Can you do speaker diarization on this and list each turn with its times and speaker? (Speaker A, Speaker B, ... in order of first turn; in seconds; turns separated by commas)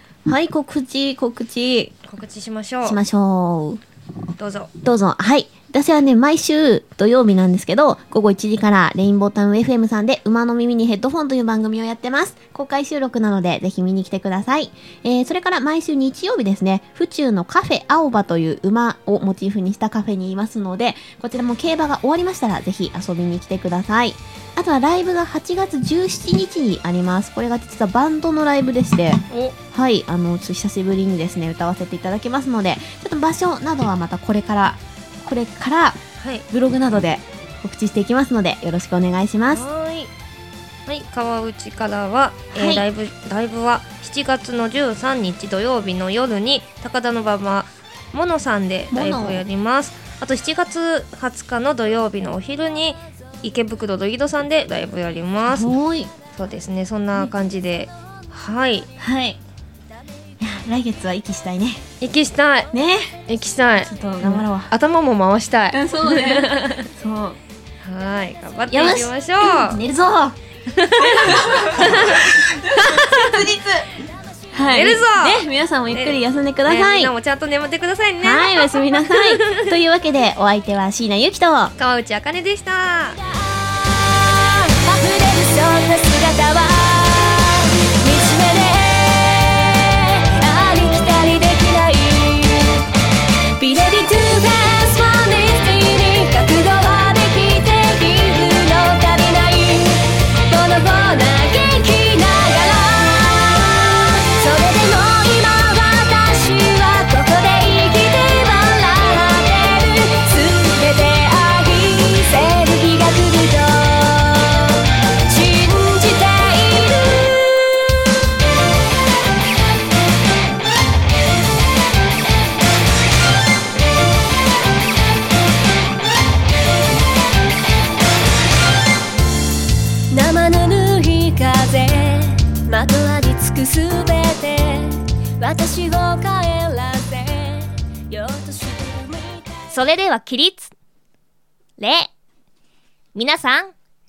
Speaker A: 0.3-1.9, Speaker B: 2.1-3.0, Speaker A: 2.8-3.8, Speaker B: 4.4-4.7, Speaker A: 4.8-39.6, Speaker B: 29.3-29.6, Speaker B: 36.2-36.5, Speaker B: 39.5-40.1, Speaker B: 40.9-55.7, Speaker A: 42.5-42.9, Speaker A: 48.9-49.4, Speaker A: 55.5-56.1, Speaker B: 56.3-58.9, Speaker A: 59.0-59.4, Speaker A: 60.4-61.8, Speaker B: 62.0-62.7, Speaker A: 62.7-63.1, Speaker B: 63.3-66.9, Speaker A: 63.8-64.7, Speaker A: 65.7-67.4, Speaker B: 67.8-69.8, Speaker A: 68.7-70.4, Speaker B: 70.7-73.4, Speaker A: 70.9-73.8, Speaker A: 74.5-77.1, Speaker B: 74.7-79.8, Speaker A: 78.2-81.7, Speaker B: 81.8-83.2, Speaker C: 83.5-92.8, Speaker C: 93.6-117.9, Speaker C: 130.1-139.8, Speaker B: 139.7-140.7, Speaker B: 141.8-142.1, Speaker B: 143.1-143.7